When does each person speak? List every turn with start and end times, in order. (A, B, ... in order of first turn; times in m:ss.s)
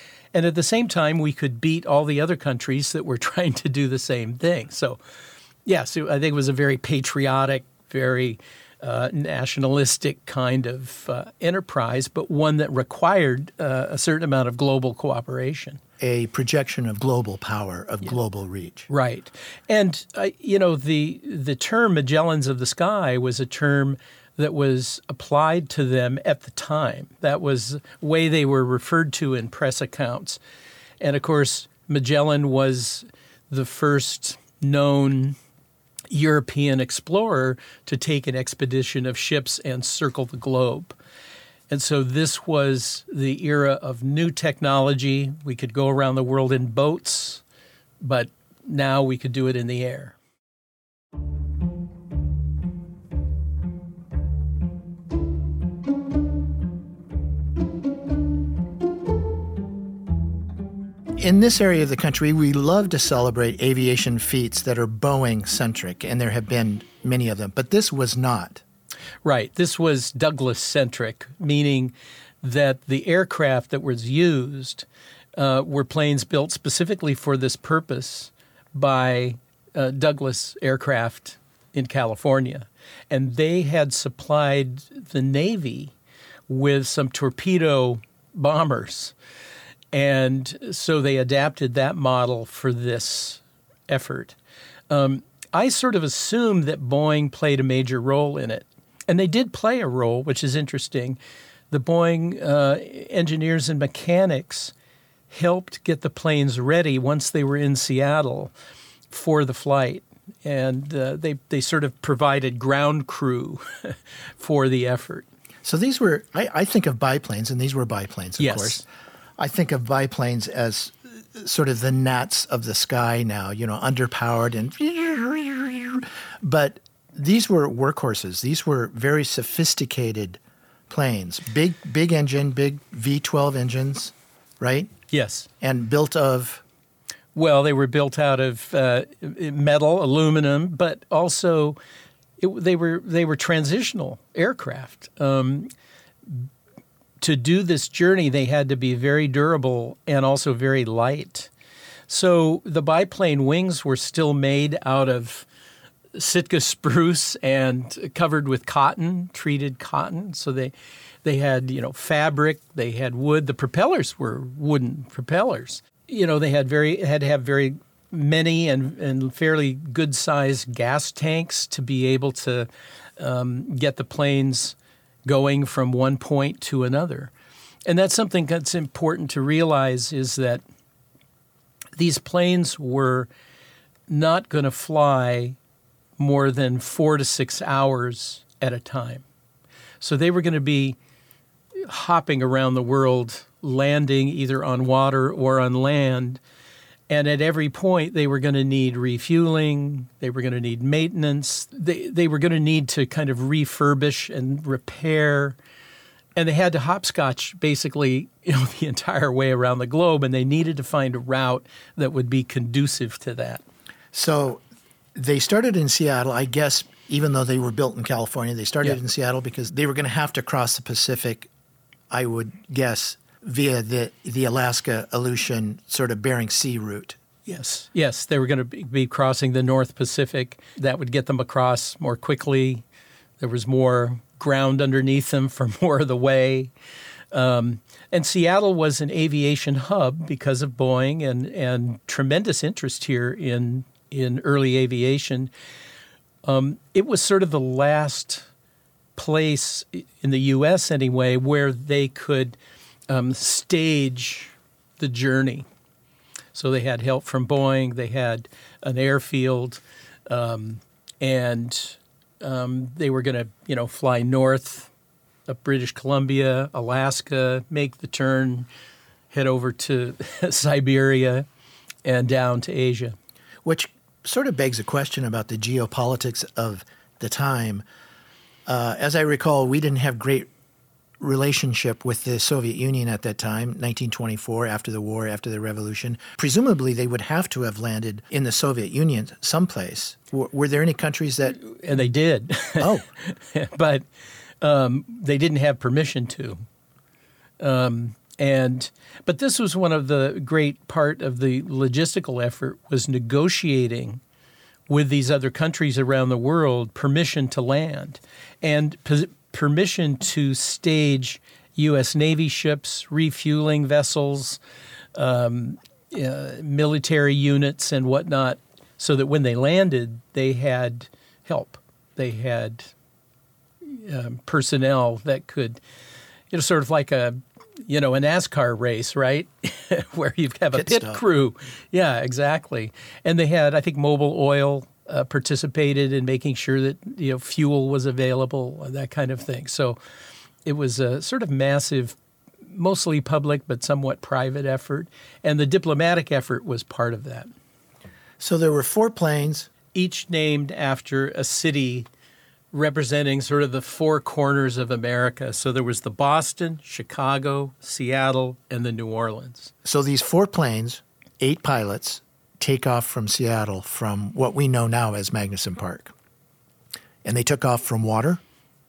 0:00.3-0:05.0 A
0:05.6-0:15.8 A
0:16.0-0:18.9 B
0:18.9-0:30.4 A
0:31.0-0:35.4 A
0:36.1-0:41.0 A
0:41.7-0:47.4 A
0:48.0-0:50.2 A
1:01.2-1:08.6 B
1:09.2-1:25.9 A
1:26.5-1:29.1 A
1:29.9-1:34.4 A
1:34.9-1:41.2 A
1:41.7-1:44.7 A
1:45.3-1:48.5 A
1:49.1-1:55.2 A
1:55.6-1:58.8 B
1:58.4-1:58.8 A
1:59.4-2:14.9 B
2:15.1-2:15.5 A
2:15.6-2:16.6 B
2:17.3-2:21.8 A
2:22.4-2:25.7 A
2:27.2-2:31.5 A
2:32.1-2:35.5 A
2:36.1-2:40.7 A
2:41.2-2:57.3 A
2:57.8-3:00.6 A
3:02.0-3:03.3 A
3:04.1-3:05.6 A
3:06.2-3:09.2 A
3:10.0-3:11.0 A
3:11.8-3:16.4 A
3:17.1-3:25.6 A
3:26.4-3:33.6 A
3:34.1-3:34.6 B
3:35.1-3:41.5 B
3:42.1-3:47.2 B
3:47.4-3:52.8 A
3:53.4-3:56.7 A
3:57.3-4:05.5 A
4:06.4-4:08.5 A
4:09.2-4:12.6 A
4:13.1-4:15.6 A
4:16.5-4:24.9 A
4:25.5-4:28.7 A
4:29.3-4:31.4 A
4:32.0-4:33.1 A
4:33.6-4:37.8 B
4:38.6-4:40.5 B
4:41.2-4:51.6 B
4:51.6-4:54.0 A
4:52.8-4:53.0 B
4:54.6-4:56.6 A
4:57.6-5:04.2 A
5:04.9-5:14.6 A
5:15.1-5:22.9 A
5:23.8-5:25.8 A
5:26.5-5:40.0 A
5:30.7-5:31.2 B
5:40.6-5:47.5 A
5:48.4-5:49.7 B
5:49.9-5:52.1 A
5:52.7-5:59.7 A
5:59.8-6:06.1 B
6:07.2-6:08.4 B